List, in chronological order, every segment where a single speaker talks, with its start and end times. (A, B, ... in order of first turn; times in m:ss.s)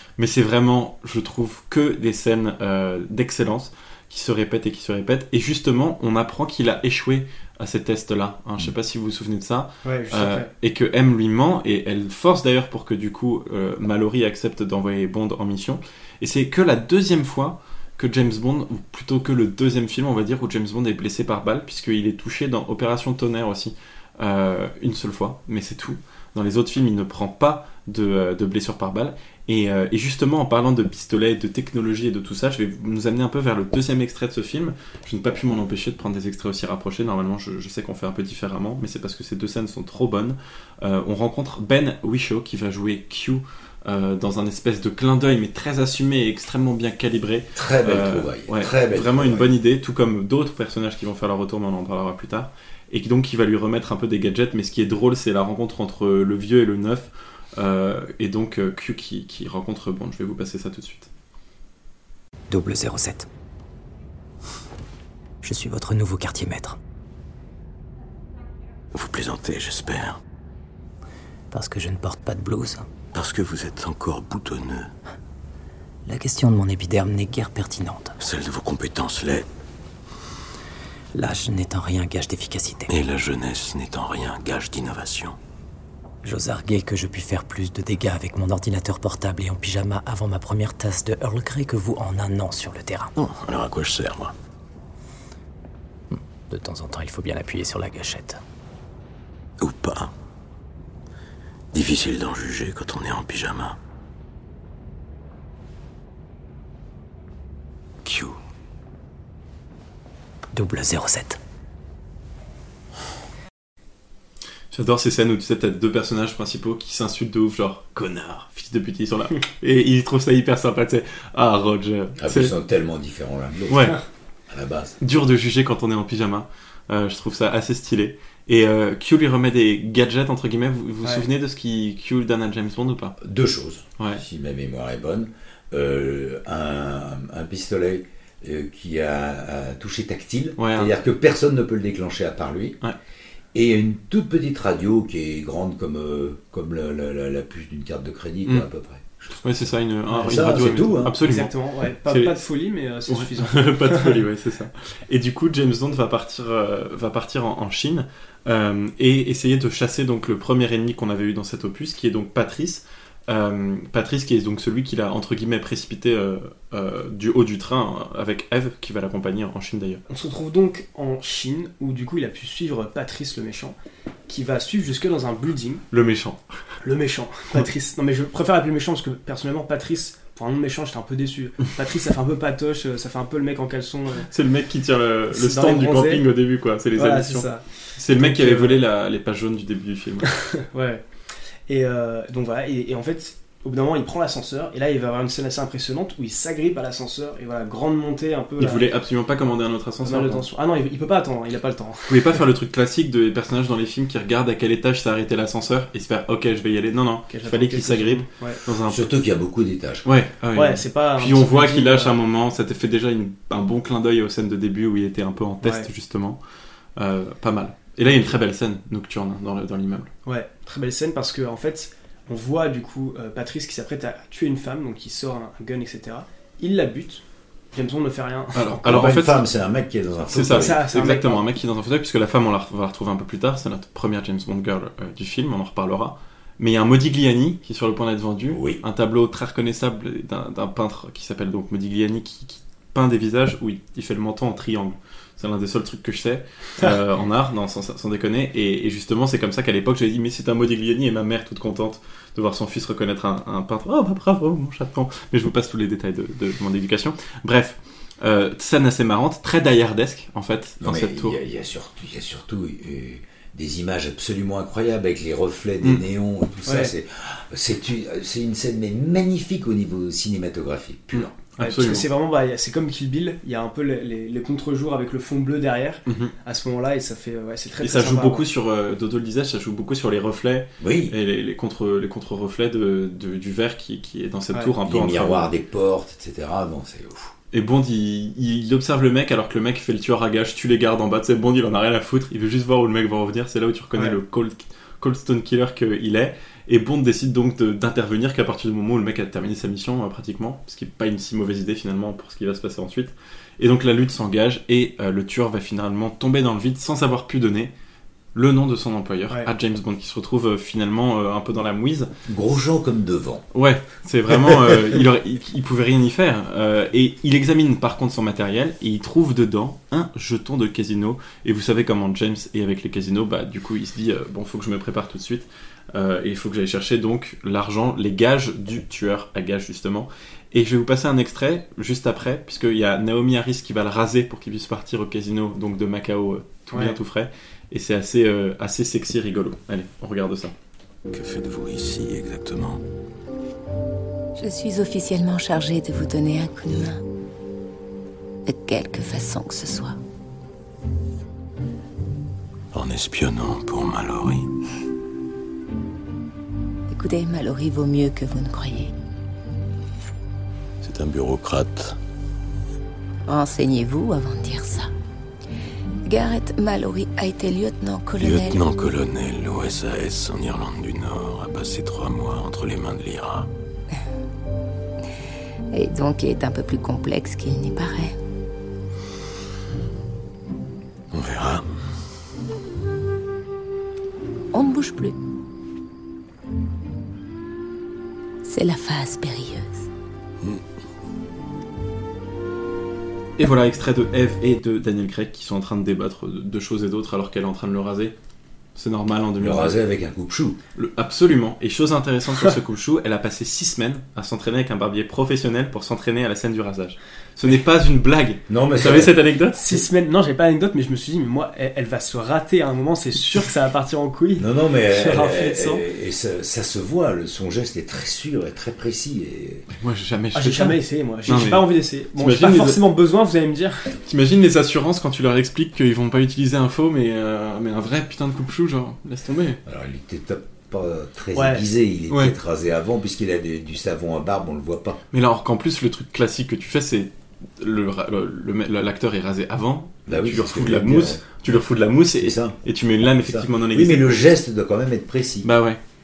0:00.2-1:01.1 A
0:09.8-0:10.5 B
0:47.6-0:49.5 C
1:02.5-1:03.3 D
1:05.4-1:06.8 D
1:08.9-1:10.2 E
1:11.5-1:12.9 D
1:13.1-1:14.9 E
1:16.0-1:18.1 D
1:18.2-1:19.5 E
1:21.1-1:22.9 D
1:22.9-1:25.4 E
1:26.2-1:33.1 D
1:33.2-1:34.3 E
1:36.1-1:38.4 D
1:39.6-1:40.1 E
1:41.7-1:43.8 E
1:48.0-1:48.4 E
1:50.5-1:51.4 D
1:54.7-2:02.5 A
2:02.2-2:03.9 C
2:03.7-2:04.0 A
2:04.5-2:05.0 C
2:05.0-2:13.2 A
2:13.2-2:22.8 C
2:20.6-2:20.9 A
2:23.5-2:29.7 C
2:29.4-2:31.5 A
2:30.1-2:30.6 B
2:30.2-2:31.2 C
2:31.2-2:34.2 B
2:32.0-2:32.4 A
2:33.1-2:50.0 A
2:50.1-2:53.8 B
2:54.3-2:55.8 B
2:55.9-2:56.4 A
2:56.8-3:04.3 B
3:04.3-3:10.4 A
3:05.3-3:06.2 B
3:07.0-3:08.8 B
3:10.6-3:11.0 B
3:11.7-3:18.8 B
3:18.6-3:20.4 A
3:20.0-3:22.4 B
3:22.1-3:29.0 A
3:27.3-3:28.6 B
3:28.9-3:30.0 C
3:30.0-3:36.4 A
3:30.5-3:32.1 B
3:35.6-3:35.9 B
3:37.0-3:40.1 A
3:40.2-3:47.2 B
3:47.7-3:49.2 B
3:48.6-3:49.4 A
3:48.8-3:50.8 C
3:50.3-4:21.4 A
3:50.4-3:51.4 B
3:58.5-3:58.8 C
4:20.8-4:31.3 C
4:26.6-4:26.9 B
4:31.1-4:32.0 A
4:31.6-4:38.4 B
4:36.1-4:36.3 A
4:37.8-4:45.5 A
4:40.8-4:41.2 C
4:44.8-4:47.3 C
4:47.5-5:07.7 A
5:08.3-5:12.1 A
5:12.3-5:13.4 C
5:13.5-5:40.5 A
5:36.7-5:37.0 B
5:41.1-5:42.8 E
5:44.4-5:47.0 F
5:48.4-5:50.0 F
5:52.7-5:54.5 E
5:56.9-5:58.9 F
6:00.8-6:02.0 E
6:03.3-6:04.9 F
6:06.0-6:08.6 F
6:08.2-6:13.5 E
6:15.7-6:18.1 F
6:21.1-6:21.6 E
6:24.5-6:25.2 F
6:28.4-6:29.9 F
6:33.4-6:38.1 A
6:38.8-6:39.8 A
6:39.4-6:40.6 C
6:40.8-6:49.8 A
6:48.5-6:49.2 C
6:49.5-6:55.8 B
6:54.4-6:59.6 C
6:59.8-7:02.8 A
7:00.3-7:03.9 B
7:04.0-7:09.6 A
7:09.6-7:15.0 C
7:11.3-7:11.6 B
7:12.1-7:12.3 A
7:15.1-7:24.3 A
7:20.1-7:21.2 C
7:22.2-7:25.5 C
7:25.4-7:25.8 A